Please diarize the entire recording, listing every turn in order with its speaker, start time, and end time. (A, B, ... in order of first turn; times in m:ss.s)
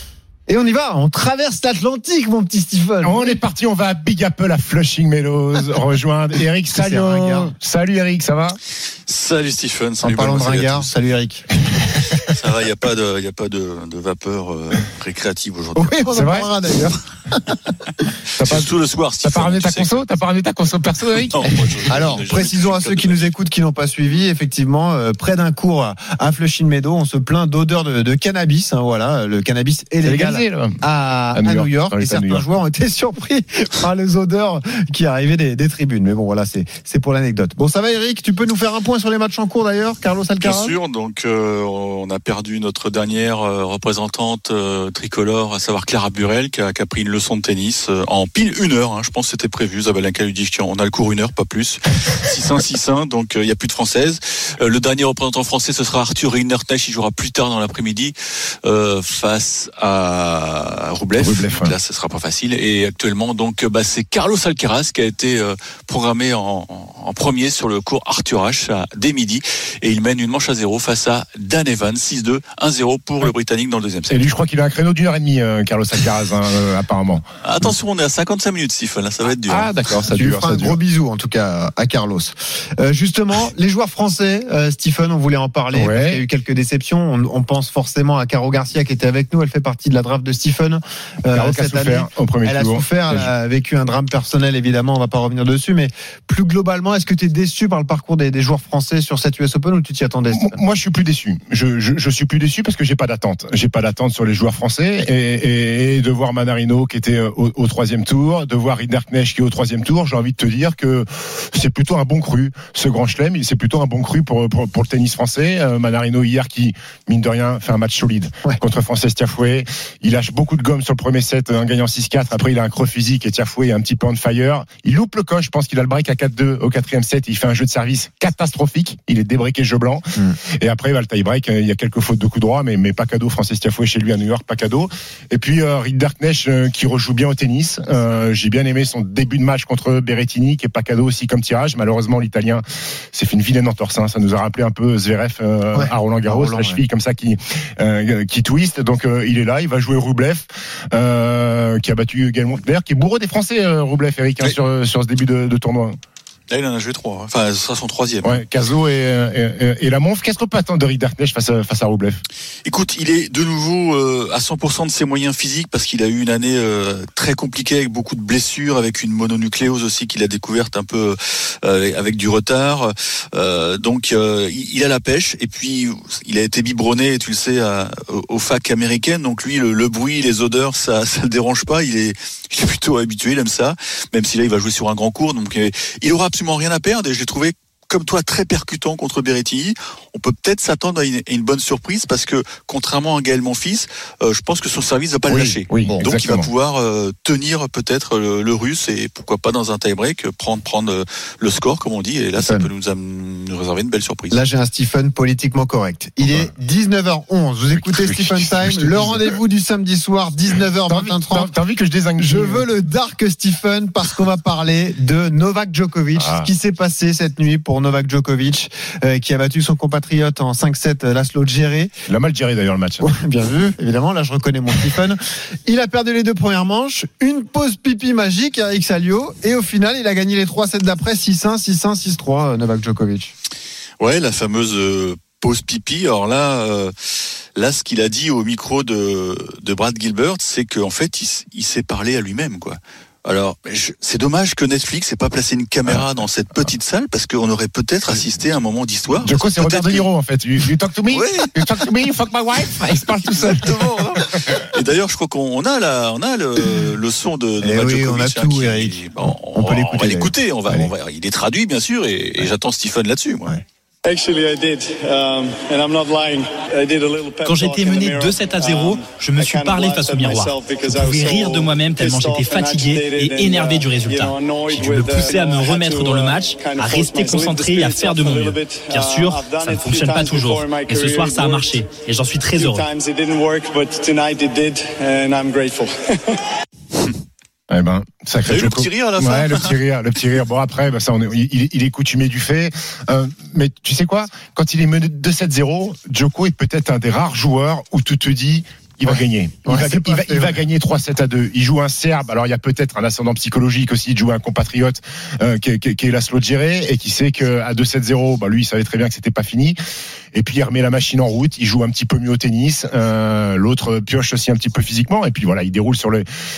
0:00.5-0:03.4 A
0:03.0-0:08.6 B
0:06.7-0:07.5 A
0:09.1-0:10.9 C
0:10.0-0:11.5 A
0:12.2-0:16.1 C
0:15.8-0:17.6 A
0:16.1-0:16.5 B
0:18.4-0:18.7 B
0:18.4-0:20.0 C
0:19.2-0:22.0 B
0:21.3-0:23.2 C
0:21.9-0:40.8 A
0:30.0-0:30.8 B
0:31.3-0:32.4 B
0:40.4-1:14.3 C
1:01.2-1:01.7 B
1:14.1-1:17.7 B
1:17.4-1:19.8 C
1:19.5-1:20.8 B
1:20.1-1:40.6 A
1:25.7-1:26.2 B
1:31.3-1:33.3 B
1:40.3-2:10.0 B
2:10.6-2:36.0 B
2:25.7-2:26.8 A
2:36.5-2:38.4 C
2:38.2-2:42.2 B
2:42.6-3:24.4 C
3:15.3-3:16.5 B
3:22.4-3:22.7 A
3:24.3-3:31.5 A
3:26.2-3:26.5 B
3:28.0-3:29.2 B
3:30.9-3:32.7 B
3:32.2-3:41.9 A
3:36.1-3:36.5 B
3:42.1-3:43.1 B
3:43.0-3:53.3 A
3:54.0-3:56.9 C
3:57.6-4:10.1 C
4:09.2-4:14.6 B
4:11.1-4:11.5 C
4:13.3-4:23.5 C
4:17.6-4:20.8 A
4:24.0-4:42.0 D
4:27.4-4:42.8 E
4:42.5-4:46.4 D
4:47.7-5:09.8 B
4:48.4-4:49.8 C
4:59.6-5:00.6 A
5:10.3-5:16.2 B